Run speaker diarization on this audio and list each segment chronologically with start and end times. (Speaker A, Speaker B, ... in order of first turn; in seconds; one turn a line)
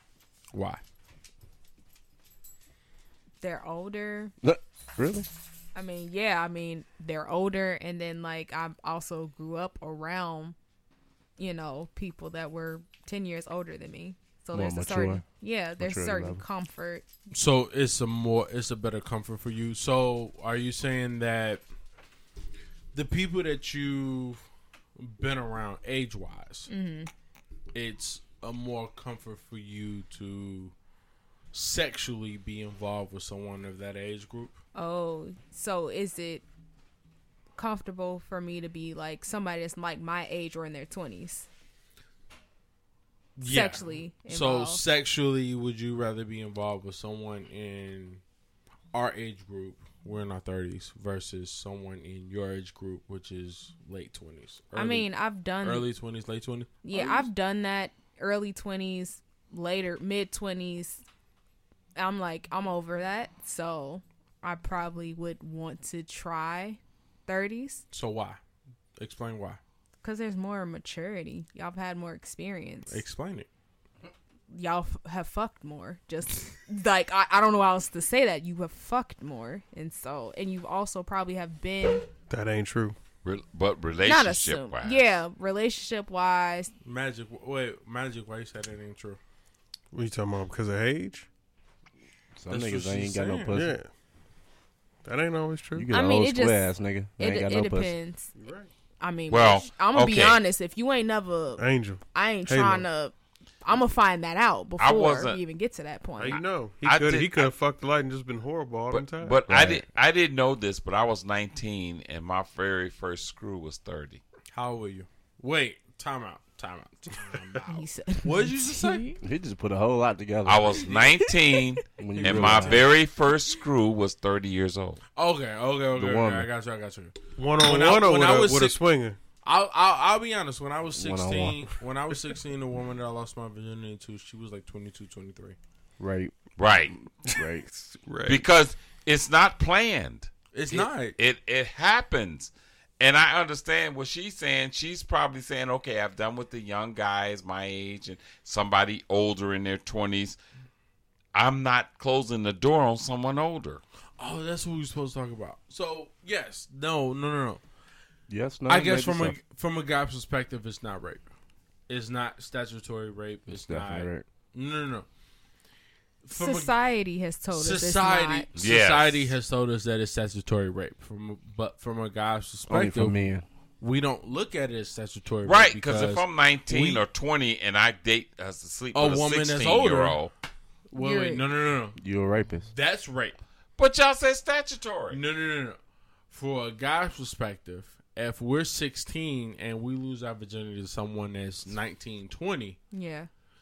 Speaker A: 0.5-0.8
Speaker B: 3.4-4.3
Speaker C: 4.4-5.3
Speaker B: 5.7-10.6
Speaker B: 11.4-17.1
Speaker C: 14.5-15.2
Speaker C: 15.8-16.4
Speaker A: 17.3-21.6
Speaker A: 22.9-24.4
Speaker A: 25.0-26.7
Speaker B: 26.7-27.1
Speaker A: 27.7-30.7
Speaker A: 31.5-34.6
Speaker B: 34.7-36.4
Speaker B: 37.5-41.5
Speaker A: 43.4-48.2
Speaker B: 43.4-44.8
Speaker A: 48.9-57.3
Speaker B: 54.7-55.9
Speaker B: 56.8-61.0
Speaker B: 62.0-67.8
Speaker A: 67.9-68.4
Speaker A: 69.0-69.6
Speaker B: 70.0-73.0
Speaker A: 72.9-73.5
Speaker B: 74.5-82.1
Speaker D: 82.3-82.9
Speaker E: 83.2-85.2
Speaker B: 84.0-86.7
Speaker A: 86.8-89.2
Speaker D: 89.9-91.3
Speaker C: 92.3-93.7
Speaker A: 92.5-93.7
Speaker D: 93.5-93.9
Speaker D: 95.0-95.9
Speaker C: 95.7-97.9
Speaker B: 95.9-98.3
Speaker D: 98.3-98.7
Speaker B: 99.0-106.4
Speaker E: 99.3-100.4
Speaker D: 101.6-102.8
Speaker E: 104.8-105.4
Speaker D: 106.2-109.4
Speaker E: 106.8-107.5
Speaker E: 108.9-114.2
Speaker C: 109.5-109.8
Speaker A: 114.5-119.2
Speaker B: 117.6-119.2
Speaker C: 119.2-121.0
Speaker E: 120.4-125.0
Speaker C: 122.0-122.9
Speaker A: 122.2-122.9
Speaker A: 125.2-128.8
Speaker C: 126.0-126.5
Speaker D: 127.3-129.2
Speaker A: 129.4-135.6
Speaker C: 130.9-131.6
Speaker C: 136.0-136.3
Speaker E: 136.6-136.9
Speaker D: 137.3-138.4
Speaker C: 137.3-137.7
Speaker E: 138.2-150.4
Speaker A: 140.5-141.2
Speaker E: 151.3-153.8
Speaker A: 154.2-157.6
Speaker C: 158.3-159.4
Speaker A: 158.7-161.2
Speaker A: 161.9-165.1
Speaker C: 163.5-164.2
Speaker A: 166.2-166.7
Speaker B: 166.3-168.5
Speaker A: 167.5-173.2
Speaker E: 168.5-169.3
Speaker C: 172.7-173.4
Speaker A: 173.8-177.0
Speaker E: 175.4-180.3
Speaker A: 178.9-180.2
Speaker A: 180.9-182.0
Speaker B: 180.9-181.4
Speaker C: 182.0-182.7
Speaker A: 182.7-183.4
Speaker E: 183.8-185.2
Speaker A: 185.1-185.8
Speaker A: 186.3-192.8
Speaker B: 192.9-193.3